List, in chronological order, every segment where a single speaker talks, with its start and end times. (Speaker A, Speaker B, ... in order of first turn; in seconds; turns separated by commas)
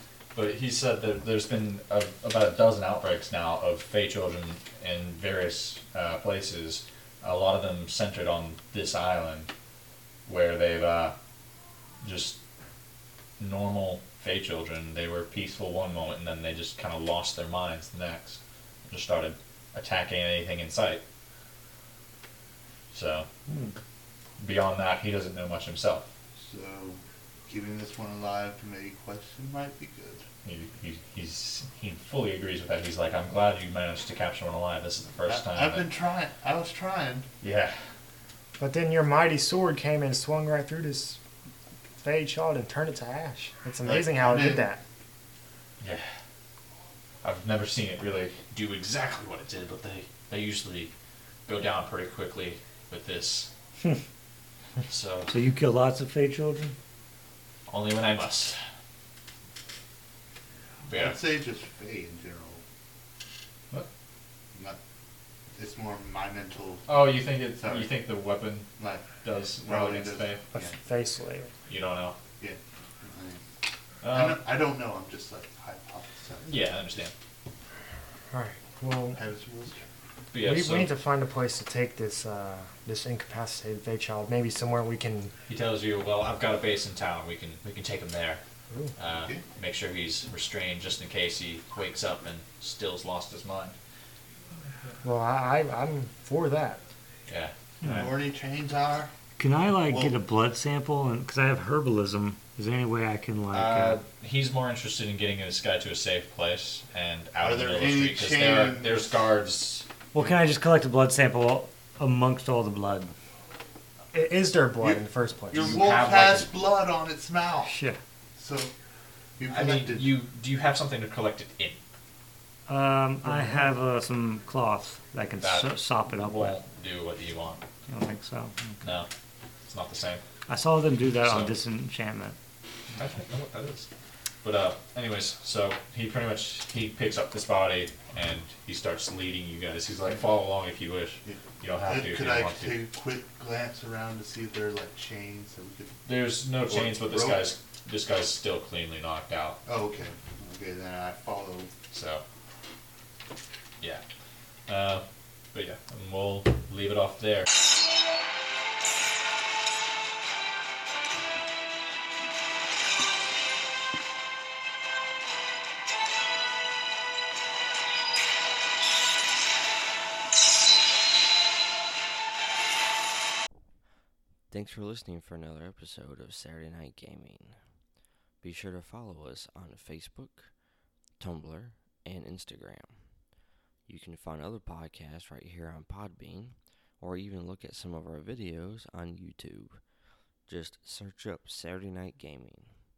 Speaker A: 0.3-9.5, Speaker A: 10.3-11.2, Speaker A: 12.0-12.4, Speaker A: 13.4-21.0, Speaker A: 22.9-23.3, Speaker B: 23.5-23.8, Speaker A: 24.4-26.1, Speaker C: 26.4-30.2, Speaker A: 30.4-35.8, Speaker C: 35.3-37.3, Speaker A: 37.4-37.8, Speaker D: 38.6-41.2, Speaker D: 42.0-44.8, Speaker C: 43.9-44.7, Speaker A: 45.8-46.1, Speaker A: 47.2-50.9, Speaker A: 51.5-53.5, Speaker A: 54.9-55.3, Speaker B: 55.3-56.8, Speaker A: 57.7-58.6, Speaker A: 60.9-61.2, Speaker C: 60.9-62.6, Speaker C: 65.6-67.1, Speaker A: 66.9-68.7, Speaker C: 67.6-67.9, Speaker C: 68.8-70.7, Speaker A: 69.2-70.4, Speaker D: 70.5-71.5, Speaker A: 71.7-72.2, Speaker C: 72.4-73.4, Speaker A: 74.0-74.4, Speaker C: 74.1-76.6, Speaker A: 76.5-77.1, Speaker D: 78.3-79.2, Speaker C: 79.2-79.8, Speaker A: 80.3-80.9, Speaker D: 80.4-85.3, Speaker A: 85.5-88.4, Speaker A: 89.0-93.8, Speaker D: 95.0-96.8, Speaker A: 97.3-97.5, Speaker B: 97.8-98.1, Speaker C: 97.8-99.1, Speaker B: 99.4-104.0, Speaker C: 99.8-100.2, Speaker A: 103.5-109.9, Speaker C: 107.4-109.1, Speaker B: 110.1-113.1, Speaker D: 114.1-115.8, Speaker C: 114.8-117.7, Speaker A: 115.5-116.5, Speaker B: 117.6-118.0, Speaker C: 118.4-118.7, Speaker C: 119.4-120.1, Speaker A: 119.5-121.8, Speaker B: 122.7-126.6, Speaker A: 125.4-127.6, Speaker B: 127.9-128.8, Speaker A: 128.8-129.1, Speaker A: 129.7-130.2, Speaker B: 130.5-132.4, Speaker A: 131.2-131.5, Speaker A: 133.0-133.9, Speaker A: 134.4-142.7, Speaker C: 141.2-146.0, Speaker A: 146.1-149.6, Speaker C: 146.7-147.5, Speaker C: 149.7-151.7, Speaker A: 151.9-152.2, Speaker A: 154.7-157.5, Speaker E: 174.5-177.6, Speaker E: 178.4-180.5, Speaker E: 181.2-183.1, Speaker E: 183.9-189.8, Speaker E: 190.5-192.7